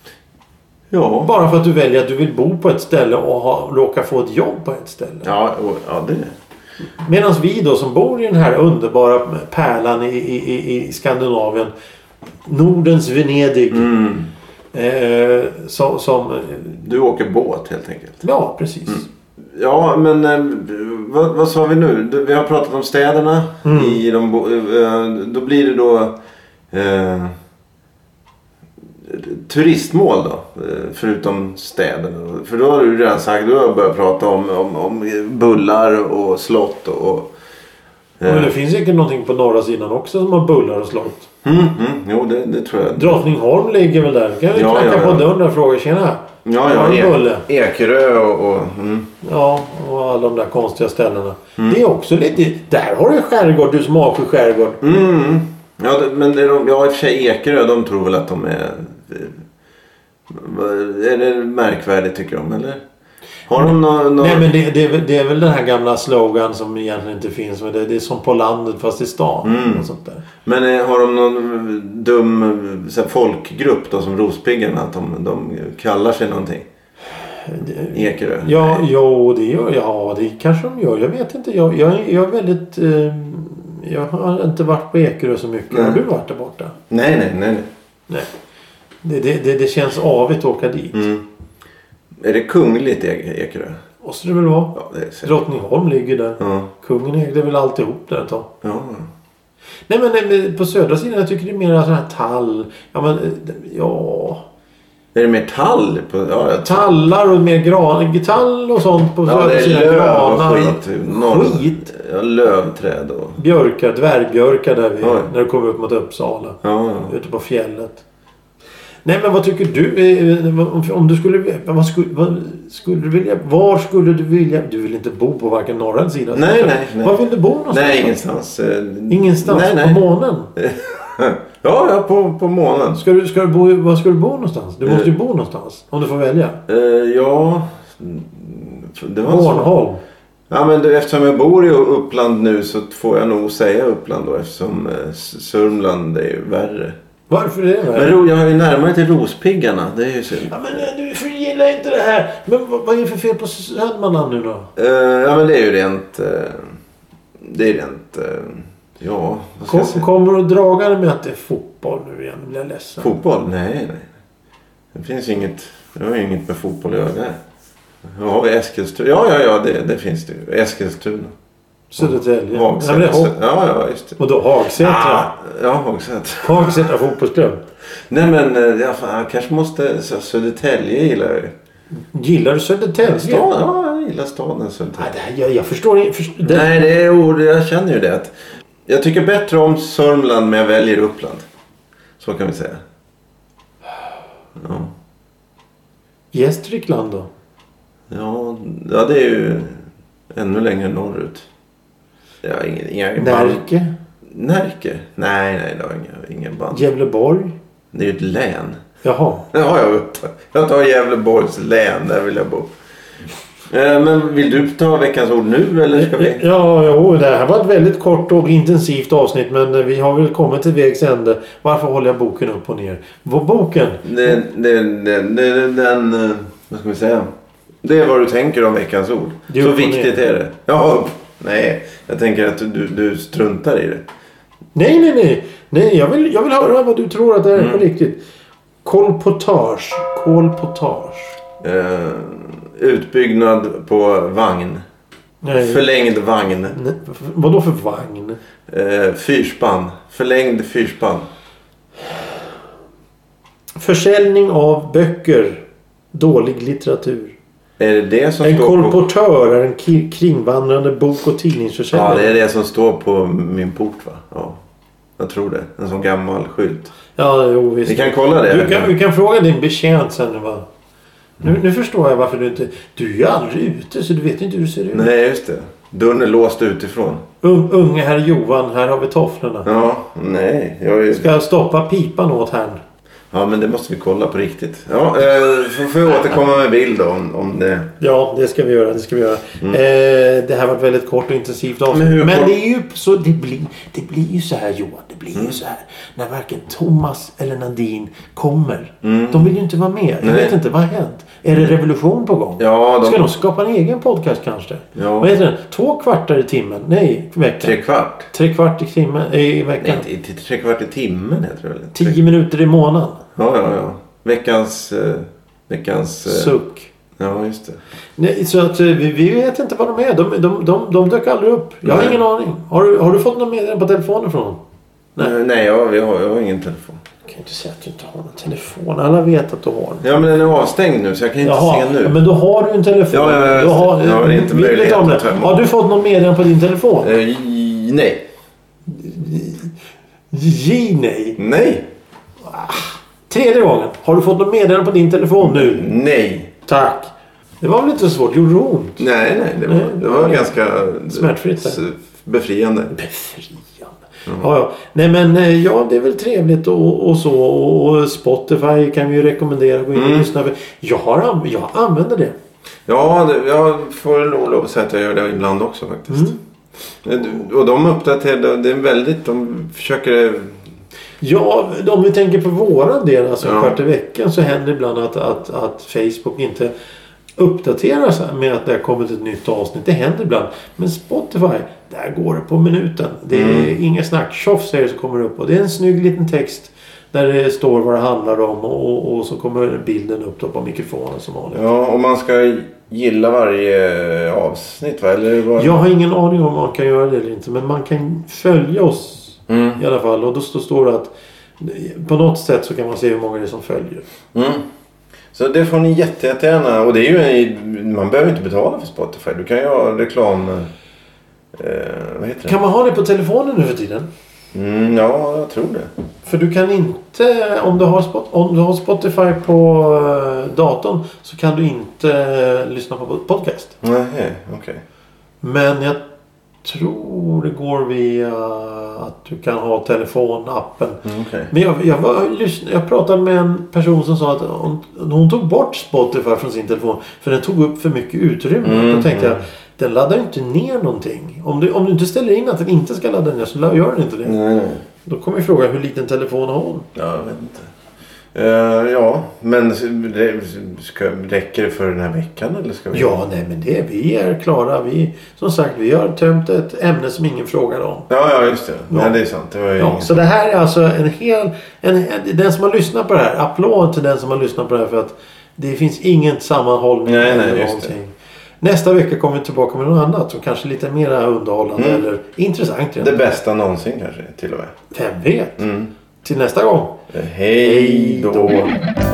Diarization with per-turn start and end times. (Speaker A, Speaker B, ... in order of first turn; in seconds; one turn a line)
Speaker A: 0.9-1.3
Speaker B: 1.2-5.3
Speaker A: 5.2-6.3
Speaker B: 7.0-11.7
Speaker B: 12.4-13.9
Speaker A: 13.7-14.3
Speaker B: 14.7-16.8
Speaker A: 16.8-18.2
Speaker B: 18.2-19.1
Speaker A: 18.9-26.2
Speaker B: 23.6-24.0
Speaker A: 26.7-27.3
Speaker A: 29.0-37.3
Speaker A: 38.2-38.5
Speaker B: 38.2-41.3
Speaker A: 41.4-43.2
Speaker B: 43.0-47.4
Speaker A: 44.5-45.3
Speaker A: 46.4-49.1
Speaker B: 49.2-54.8
Speaker A: 54.8-59.4
Speaker A: 60.3-62.8
Speaker A: 63.5-64.5
Speaker B: 63.6-70.2
Speaker A: 69.4-69.9
Speaker A: 70.4-76.7
Speaker B: 77.4-86.8
Speaker A: 77.9-78.8
Speaker A: 85.7-86.0
Speaker A: 86.9-87.7
Speaker B: 89.0-91.1
Speaker A: 90.9-91.2
Speaker A: 92.2-93.8
Speaker B: 94.0-98.5
Speaker A: 94.7-95.3
Speaker A: 96.4-96.7
Speaker A: 98.6-99.1
Speaker B: 99.9-104.4
Speaker A: 105.1-107.0
Speaker B: 106.6-111.9
Speaker A: 109.2-113.4
Speaker B: 113.4-118.0
Speaker A: 115.0-115.3
Speaker A: 116.6-117.1
Speaker B: 119.0-128.2
Speaker A: 126.3-127.2
Speaker A: 127.7-130.0
Speaker B: 129.1-130.5
Speaker A: 130.6-133.0
Speaker B: 132.9-136.6
Speaker A: 136.7-139.7
Speaker B: 139.2-140.0
Speaker A: 140.5-146.9
Speaker B: 147.3-148.1
Speaker A: 147.9-150.8
Speaker B: 150.4-154.7
Speaker A: 154.8-156.8
Speaker A: 157.4-160.1
Speaker B: 159.7-163.1
Speaker A: 163.0-164.1
Speaker A: 164.9-167.4
Speaker A: 168.0-171.3
Speaker B: 171.9-173.3
Speaker A: 172.0-174.2
Speaker B: 174.2-175.3
Speaker A: 174.7-176.8
Speaker B: 176.4-177.6
Speaker A: 178.1-181.5
Speaker B: 182.1-183.5
Speaker A: 183.0-185.1
Speaker B: 185.0-186.7
Speaker A: 186.4-188.3
Speaker A: 188.9-191.4
Speaker A: 192.2-192.8
Speaker A: 194.6-194.9
Speaker B: 196.3-197.3
Speaker A: 198.1-199.8
Speaker A: 200.3-201.5
Speaker A: 202.4-203.6
Speaker B: 203.2-203.9
Speaker A: 204.3-206.8
Speaker B: 206.7-207.6
Speaker A: 207.9-208.8
Speaker B: 209.0-209.5
Speaker A: 209.5-212.7
Speaker A: 213.7-216.4
Speaker B: 215.9-224.3
Speaker A: 224.0-227.3
Speaker A: 227.8-234.1
Speaker B: 229.5-230.2
Speaker B: 234.7-238.2
Speaker A: 237.6-237.8
Speaker B: 238.8-241.4
Speaker A: 241.6-244.8
Speaker B: 245.4-245.8
Speaker A: 245.6-246.8
Speaker B: 246.7-248.4
Speaker A: 248.7-251.3
Speaker B: 253.8-257.4
Speaker A: 257.8-259.0
Speaker B: 258.4-262.4
Speaker A: 261.9-264.6
Speaker A: 265.2-266.9
Speaker B: 267.1-270.6
Speaker A: 267.9-268.9
Speaker B: 271.4-275.1
Speaker A: 274.9-277.2
Speaker B: 277.4-279.7
Speaker A: 279.6-281.3
Speaker B: 281.1-282.8
Speaker A: 283.3-287.9
Speaker B: 288.0-310.1
Speaker A: 291.9-292.5
Speaker A: 299.0-299.6
Speaker A: 300.2-300.6
Speaker A: 302.6-303.3
Speaker A: 304.9-305.3
Speaker A: 307.6-308.3
Speaker A: 309.8-312.2
Speaker B: 311.9-313.2
Speaker A: 313.4-316.5
Speaker B: 316.2-316.9
Speaker A: 317.2-317.8
Speaker B: 318.2-324.6
Speaker A: 321.9-322.2
Speaker A: 325.2-327.0
Speaker B: 327.3-330.1
Speaker A: 330.0-332.2
Speaker B: 331.4-337.1
Speaker A: 333.1-335.6
Speaker A: 337.0-338.2
Speaker B: 338.9-339.7
Speaker B: 340.3-341.4
Speaker A: 341.4-341.9
Speaker B: 342.4-345.9
Speaker A: 345.4-346.5
Speaker B: 346.7-347.1
Speaker B: 347.6-349.1
Speaker A: 349.0-352.9
Speaker B: 349.6-350.5
Speaker B: 351.1-351.8
Speaker B: 352.9-362.4
Speaker A: 359.9-360.3
Speaker A: 362.9-366.4
Speaker B: 366.1-366.4
Speaker A: 367.0-370.6
Speaker B: 371.2-376.7
Speaker A: 373.4-373.8
Speaker B: 377.4-391.6
Speaker A: 383.3-383.7
Speaker A: 391.5-395.8
Speaker B: 395.6-404.0
Speaker A: 399.5-399.8
Speaker A: 404.3-404.6
Speaker A: 405.3-410.7
Speaker A: 411.5-412.6
Speaker B: 412.4-414.1
Speaker A: 414.5-415.9
Speaker B: 416.2-423.8
Speaker A: 423.8-424.8
Speaker B: 425.4-426.0
Speaker B: 426.6-444.4
Speaker A: 431.1-431.5
Speaker A: 438.6-439.4
Speaker A: 444.2-444.8
Speaker B: 445.1-446.9
Speaker A: 446.9-447.7
Speaker A: 448.3-453.1
Speaker B: 452.9-458.1
Speaker A: 458.1-460.2
Speaker B: 458.9-459.1
Speaker B: 459.8-473.1
Speaker A: 467.1-467.9
Speaker A: 471.8-472.0
Speaker A: 473.0-474.7
Speaker B: 474.9-475.6
Speaker A: 475.6-475.9
Speaker B: 476.2-477.1
Speaker A: 477.1-478.8
Speaker B: 477.6-478.8